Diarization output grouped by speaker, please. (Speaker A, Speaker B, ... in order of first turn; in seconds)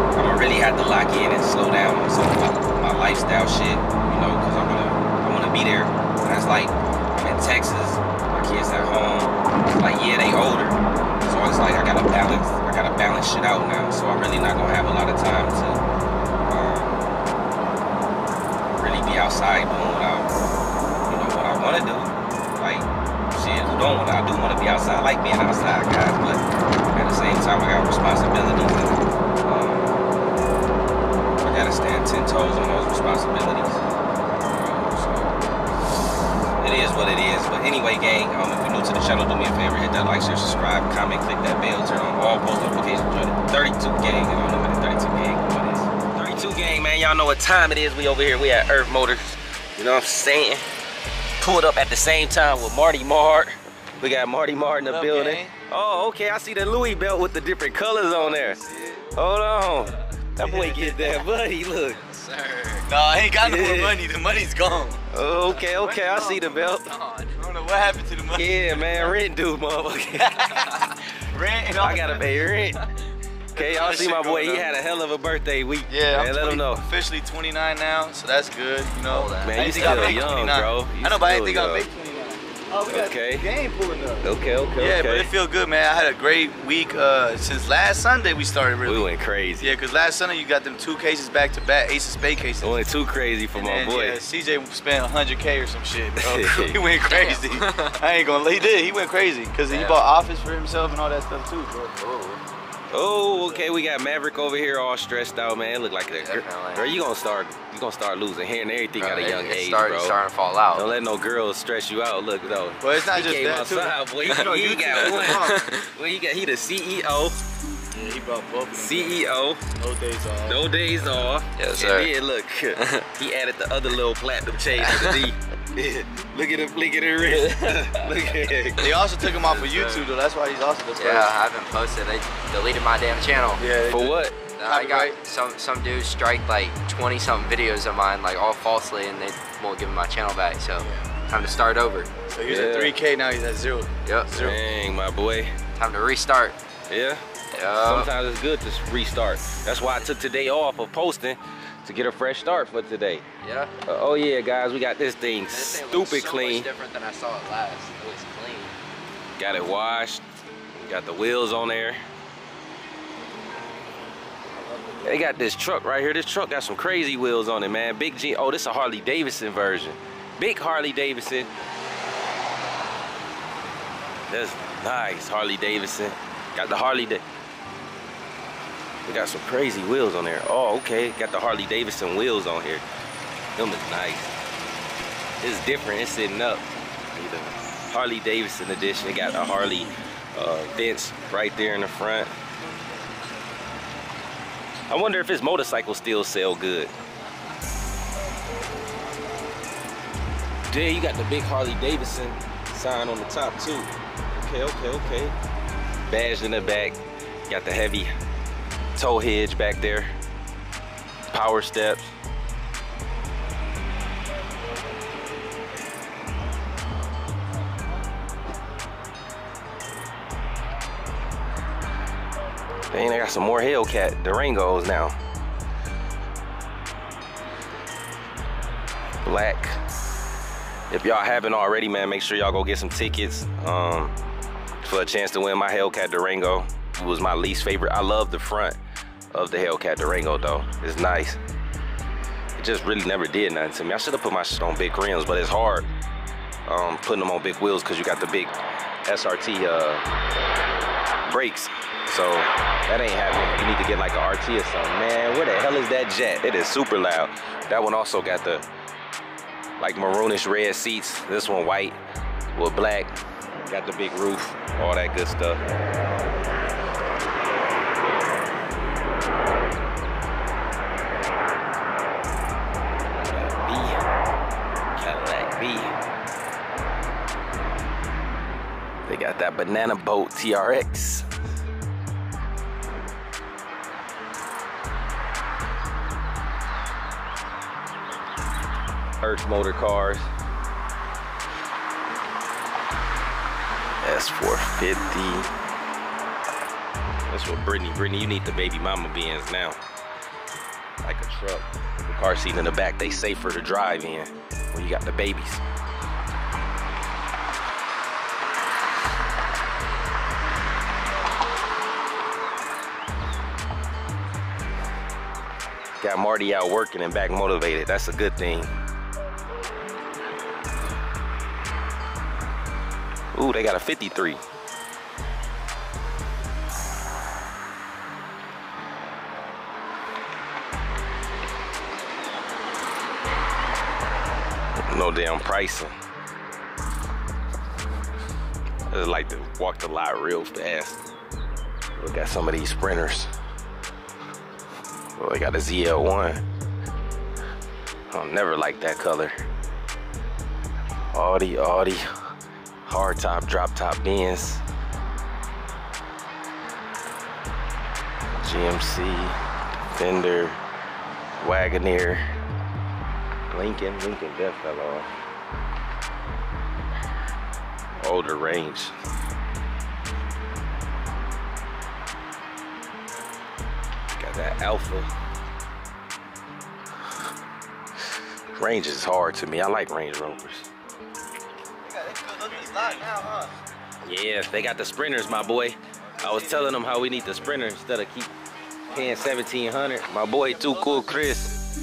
Speaker A: 0.1-15.8, 16.5-17.0, 18.8-20.3, 21.1-30.0, 31.4-33.9, 34.5-35.4, 36.6-50.7, 51.4-58.6, 59.1-62.0, 63.4-64.0, 65.1-66.9, 68.3-70.6, 71.8-72.9, 73.5-76.9, 79.4-81.9, 82.9-83.5, 84.2-85.3, 88.8-89.8, 92.6-94.2, 96.2-96.8, 102.9-110.2, 110.7-117.4, 118.8-119.6, 120.5-128.9, 133.9-134.4, 142.5-142.9, 144.4-145.6, 146.9-153.2, 153.8-156.7, 159.4-162.0, 165.0-171.5, 174.3-177.2, 179.1-182.8, 183.6-184.3, 185.4-192.3, 194.9-196.9, 200.7-205.3, 206.1-207.0, 207.5-208.1, 209.0-210.1, 211.3-212.1, 222.9-225.2, 229.2-229.8, 230.9-234.2, 234.8-238.8, 239.3-241.4, 242.6-245.9, 246.7-250.1, 251.3-258.7, 259.8-262.0, 262.5-263.2, 263.7-265.6, 273.2-274.1, 275.0-276.0, 279.1-281.3, 289.2-290.3, 294.0-295.5, 297.3-299.8, 301.0-305.6, 316.0-318.7, 323.3-324.4, 334.8-335.9, 338.9-341.0, 342.0-343.3, 345.2-346.4, 348.1-349.4, 351.1-352.1, 352.9-354.6, 358.4-359.4, 359.9-360.6, 361.4-362.2, 363.5-365.1, 368.0-368.9, 374.2-375.1, 378.6-380.7, 384.0-388.3, 388.9-391.5
Speaker B: 54.8-55.5, 60.6-60.9, 62.9-65.0, 65.9-66.6, 67.4-69.2, 70.2-72.5, 73.5-74.7, 75.9-89.1, 89.6-92.8, 93.5-102.0, 112.8-115.7, 117.9-120.6, 128.8-131.3, 133.6-135.2, 140.8-141.1, 142.3-144.6, 164.7-165.1, 381.8-383.6, 386.2-386.8, 390.4-391.2
Speaker C: 58.2-59.0, 60.5-61.2, 61.9-62.9, 65.8-67.4, 70.5-70.9, 79.1-80.3, 97.0-98.0, 99.7-100.0, 102.0-102.4, 106.2-106.9, 109.0-110.9, 115.2-115.8, 121.6-122.1, 122.8-123.1, 124.8-125.2, 129.4-130.1, 131.0-133.6, 134.6-142.1, 144.1-144.3, 145.8-146.6, 147.5-148.1, 153.4-153.7, 155.5-158.8